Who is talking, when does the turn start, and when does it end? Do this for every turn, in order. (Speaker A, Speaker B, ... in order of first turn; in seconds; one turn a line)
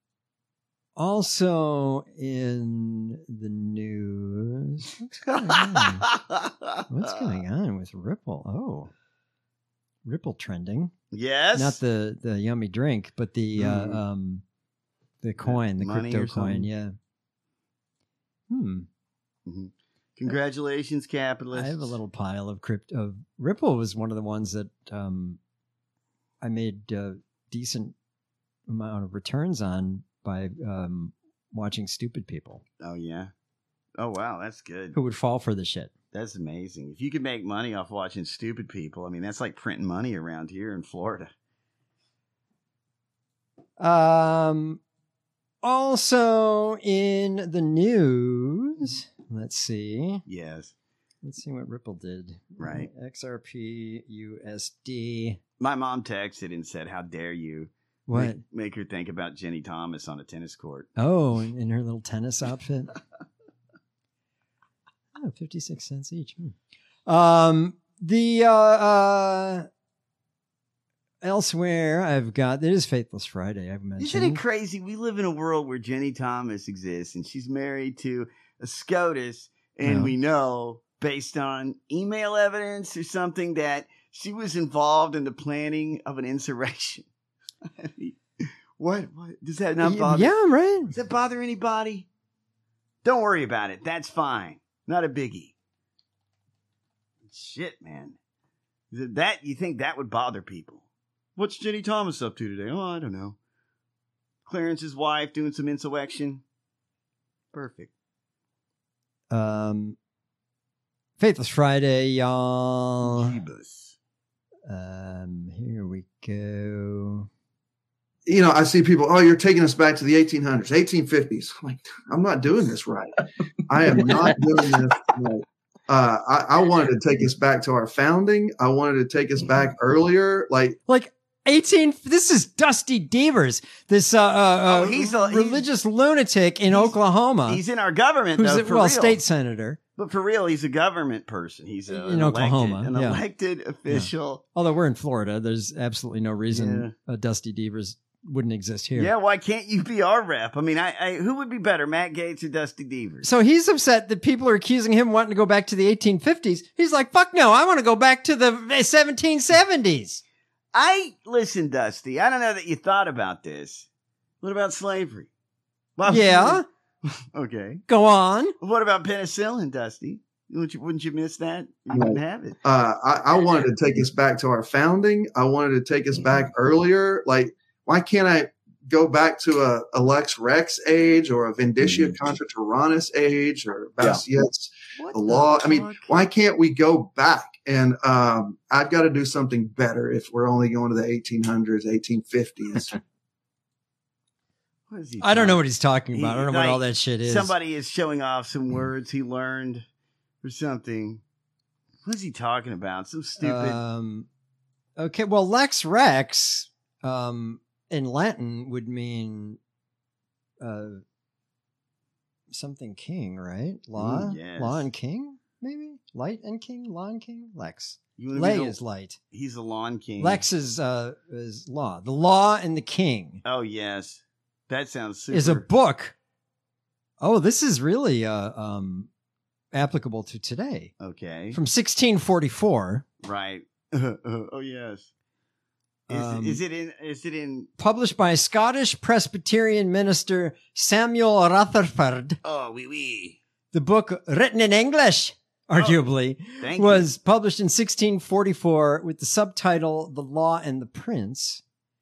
Speaker A: 0.9-6.0
Speaker B: 5.3-7.2
Speaker A: 6.9-8.9
Speaker A: 10.0-10.9
Speaker B: 11.1-11.8
Speaker A: 11.5-14.4
Speaker B: 13.6-14.0
Speaker A: 15.2-16.9
Speaker B: 15.4-16.7
Speaker A: 18.5-18.9
Speaker B: 19.4-21.9
Speaker A: 21.5-25.4
Speaker A: 26.4-27.9
Speaker A: 28.7-32.6
Speaker B: 32.8-33.3
Speaker B: 34.0-35.0
Speaker A: 34.9-35.9
Speaker B: 36.1-41.3
Speaker A: 43.8-44.8
Speaker A: 45.6-50.2
Speaker B: 50.3-50.7
Speaker A: 51.2-55.4
Speaker B: 52.6-52.9
Speaker B: 55.6-60.9
Speaker A: 58.1-58.4
Speaker A: 61.0-62.9
Speaker A: 65.1-66.5
Speaker A: 67.1-69.7
Speaker A: 71.2-74.4
Speaker B: 74.0-87.1
Speaker A: 79.8-80.1
Speaker B: 87.6-88.2
Speaker B: 88.8-90.3
Speaker A: 89.8-90.9
Speaker B: 90.9-92.1
Speaker B: 93.0-95.5
Speaker B: 97.2-98.2
Speaker B: 98.9-100.8
Speaker B: 101.3-103.4
Speaker B: 104.5-106.4
Speaker B: 107.5-107.9
Speaker A: 109.3-110.0
Speaker A: 111.2-113.4
Speaker B: 113.0-114.0
Speaker A: 114.7-117.3
Speaker C: 118.3-123.1
Speaker C: 123.7-130.8
Speaker A: 130.9-137.6
Speaker B: 134.7-135.7
Speaker B: 136.7-136.9
Speaker B: 137.5-139.2
Speaker A: 138.3-139.8
Speaker B: 139.9-144.4
Speaker A: 141.9-143.2
Speaker A: 143.9-149.1
Speaker B: 146.5-146.9
Speaker B: 148.9-153.3
Speaker A: 153.2-160.2
Speaker B: 160.7-163.9
Speaker B: 164.4-165.3
Speaker B: 166.0-167.8
Speaker A: 166.1-166.7
Speaker A: 167.9-168.6
Speaker B: 168.6-172.6
Speaker C: 171.9-193.0
Speaker B: 185.0-186.2
Speaker B: 194.9-195.6
Speaker A: 195.2-197.5
Speaker B: 196.1-199.8
Speaker B: 200.4-201.2
Speaker B: 202.0-203.8
Speaker A: 203.4-204.3
Speaker A: 205.0-209.6
Speaker A: 210.6-211.0
Speaker A: 212.5-219.2
Speaker B: 214.0-214.9
Speaker B: 218.2-218.8
Speaker B: 219.3-220.4
Speaker A: 220.2-223.4
Speaker B: 223.4-225.6
Speaker A: 225.3-226.1
Speaker A: 227.2-229.1
Speaker A: 229.7-230.9
Speaker B: 231.0-231.6
Speaker A: 231.5-233.1
Speaker B: 233.2-235.1
Speaker A: 236.1-236.6
Speaker B: 236.1-237.7
Speaker A: 237.8-242.4
Speaker B: 242.4-243.4
Speaker A: 243.7-251.6
Speaker B: 245.8-246.0
Speaker B: 246.6-247.1